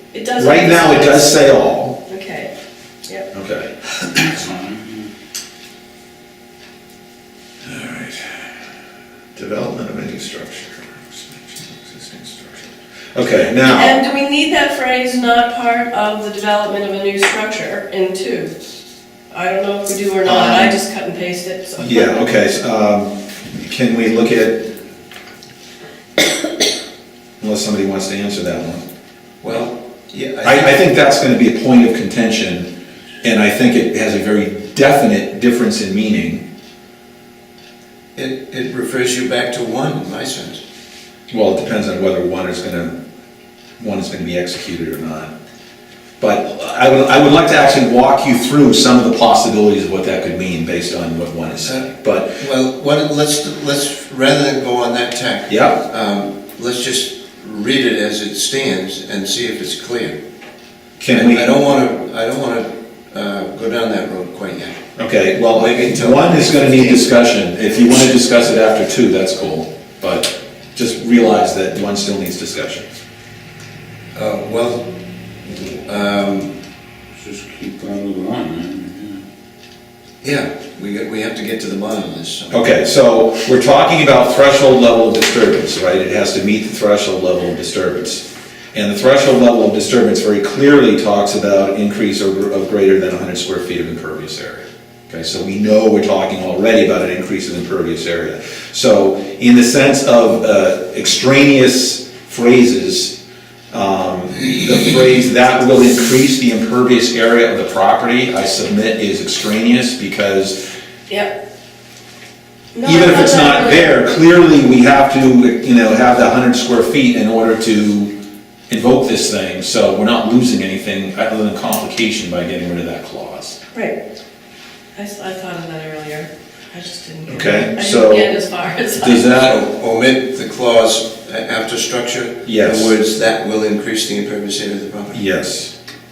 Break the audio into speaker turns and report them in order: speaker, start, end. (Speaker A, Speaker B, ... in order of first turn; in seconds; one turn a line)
Speaker A: 0.1-1.4
Speaker B: 0.4-2.0
Speaker A: 2.1-2.5
Speaker B: 3.3-4.2
Speaker C: 4.2-5.1
Speaker B: 7.6-8.5
Speaker B: 9.3-13.9
Speaker A: 13.6-18.6
Speaker A: 19.3-22.3
Speaker B: 20.2-20.8
Speaker B: 21.8-24.7
Speaker B: 27.4-28.8
Speaker D: 29.4-30.8
Speaker B: 30.4-32.7
Speaker B: 33.2-36.5
Speaker D: 38.1-40.6
Speaker B: 41.3-43.0
Speaker B: 43.8-45.3
Speaker B: 46.2-52.4
Speaker D: 51.6-60.2
Speaker B: 55.5-55.8
Speaker B: 61.0-61.5
Speaker D: 61.1-64.8
Speaker B: 65.0-73.0
Speaker D: 65.5-67.1
Speaker D: 74.1-74.9
Speaker D: 75.8-76.5
Speaker C: 77.2-79.2
Speaker D: 80.2-82.6
Speaker B: 82.5-103.2
Speaker B: 103.7-110.6
Speaker A: 112.7-114.0
Speaker B: 112.8-118.1
Speaker B: 118.7-123.6
Speaker A: 125.0-129.3
Speaker B: 127.3-128.3
Speaker B: 129.0-129.6
Speaker D: 129.4-135.2
Speaker B: 132.4-132.9
Speaker B: 135.1-135.7